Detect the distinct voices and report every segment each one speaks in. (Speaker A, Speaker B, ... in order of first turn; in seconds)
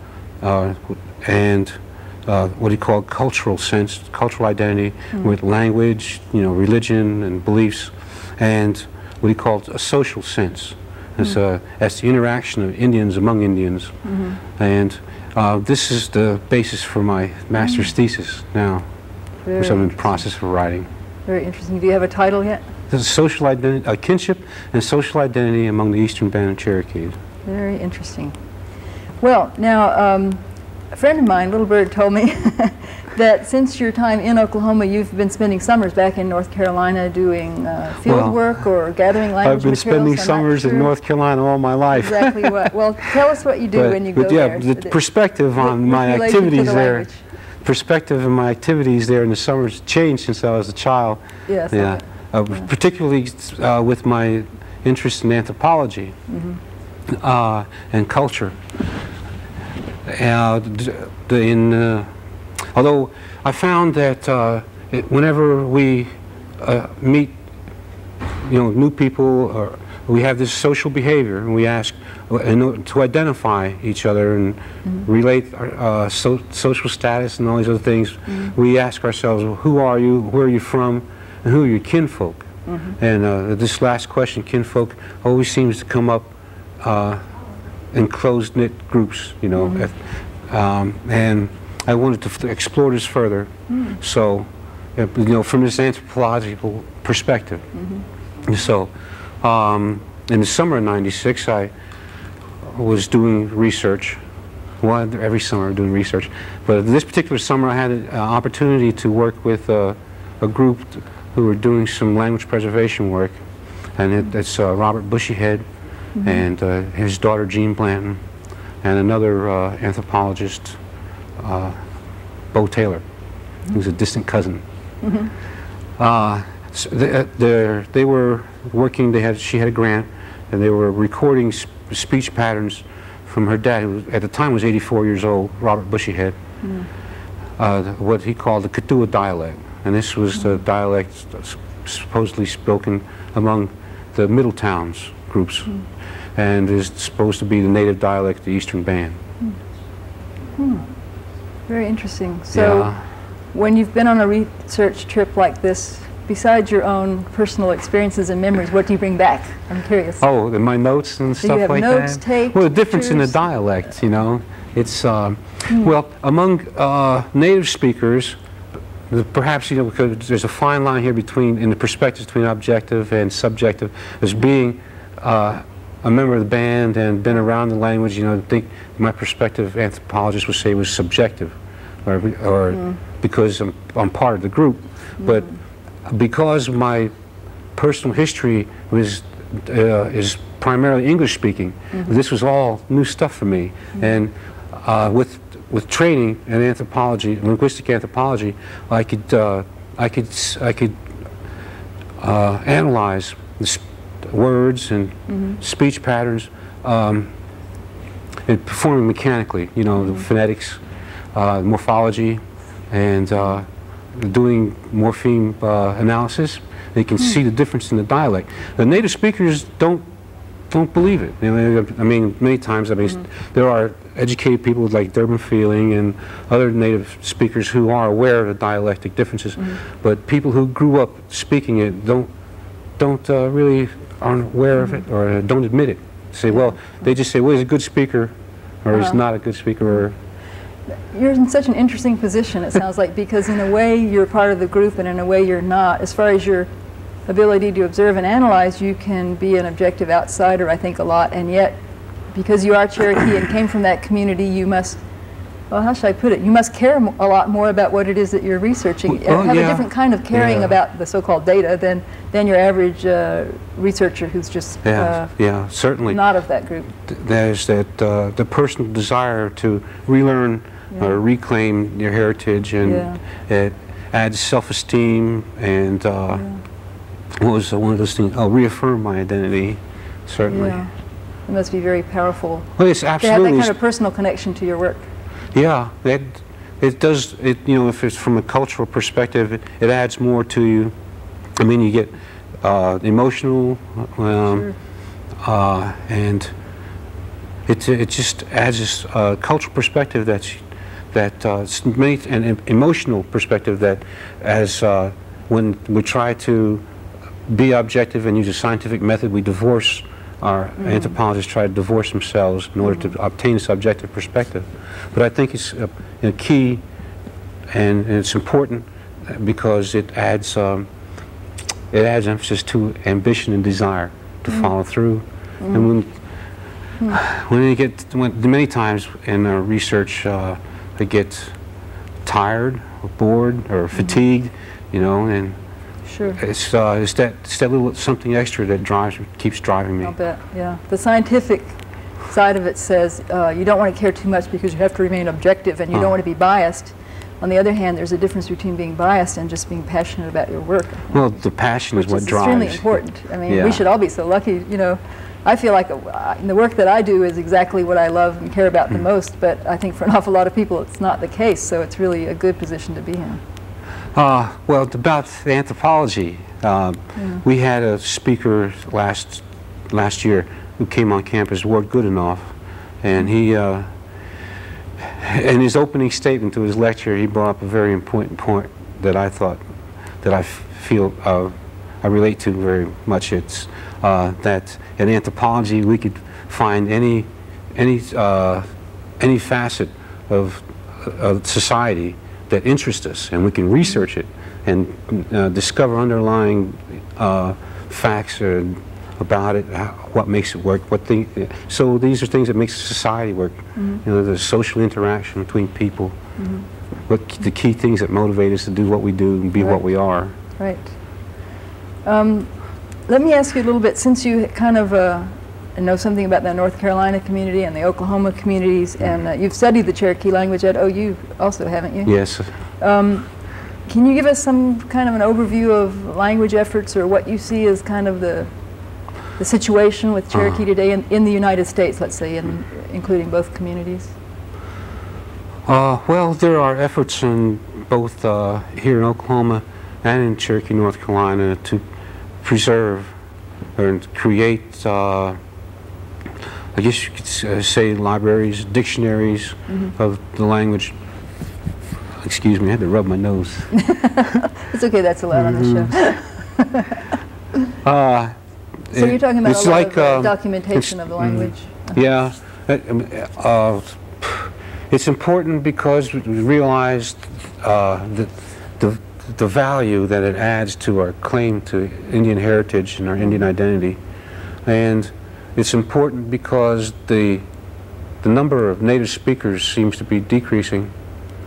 Speaker A: 0.4-13.9, 14.5-18.9, 19.6-20.9, 22.9-27.2, 38.0-38.6, 39.4-42.7, 43.7-47.0, 47.6-56.2, 57.1-58.6, 60.0-67.4, 68.4-82.4, 83.0-87.2, 87.9-97.7, 98.4-101.7, 102.6-104.2, 104.8-113.4, 114.0-115.6, 116.2-118.2, 118.8-120.8, 121.4-121.8, 122.5-123.0, 123.7-124.6, 126.0-136.3, 137.6-145.7, 146.3-149.2, 152.5-153.0, 160.2-168.4, 169.1-185.5, 186.1-187.1, 187.7-201.0, 202.2-207.3, 208.4-210.8, 211.3-220.1, 220.7-232.3, 233.0-240.2, 259.1-260.7, 264.8-266.2, 267.0-276.5, 277.3-280.8, 282.8-283.7, 285.5-290.9, 291.6-294.7, 295.4-296.5, 297.7-306.8, 307.5-316.8, 317.7-320.9, 321.9-326.1, 327.1-331.6, 332.2-335.6, 336.4-340.1, 351.1-353.8, 364.1-373.9, 375.0-379.6, 380.2-388.6, 389.2-406.2, 407.1-410.3, 422.0-422.5, 435.6-441.8, 442.4-443.1, 443.8-445.4, 446.7-451.0, 452.2-453.8, 455.3-455.9, 457.8-458.4, 458.9-474.0, 474.6-477.4, 478.2-480.9
Speaker B: 14.0-14.4, 19.4-20.2, 21.2-22.6, 27.4-28.4, 29.2-40.9, 41.9-45.0, 45.6-47.2, 51.5-52.7, 56.3-56.6, 82.7-82.9, 89.6-89.8, 93.7-94.0, 97.8-98.0, 116.1-116.4, 125.0-125.3, 150.6-150.8, 151.7-152.9, 153.5-160.2, 161.4-163.4, 182.7-183.0, 205.3-205.6, 238.9-239.2, 241.1-246.7, 247.3-251.8, 252.3-255.0, 255.7-265.3, 266.1-266.9, 272.8-273.2, 276.3-276.6, 280.5-280.9, 281.5-285.1, 310.8-311.1, 325.6-325.9, 336.1-336.4, 340.0-341.8, 342.3-351.3, 351.9-363.4, 367.1-367.4, 403.8-404.0, 406.4-406.6, 410.4-411.4, 412.0-422.2, 422.7-423.3, 423.9-428.5, 429.4-434.1, 453.7-457.0, 458.9-462.0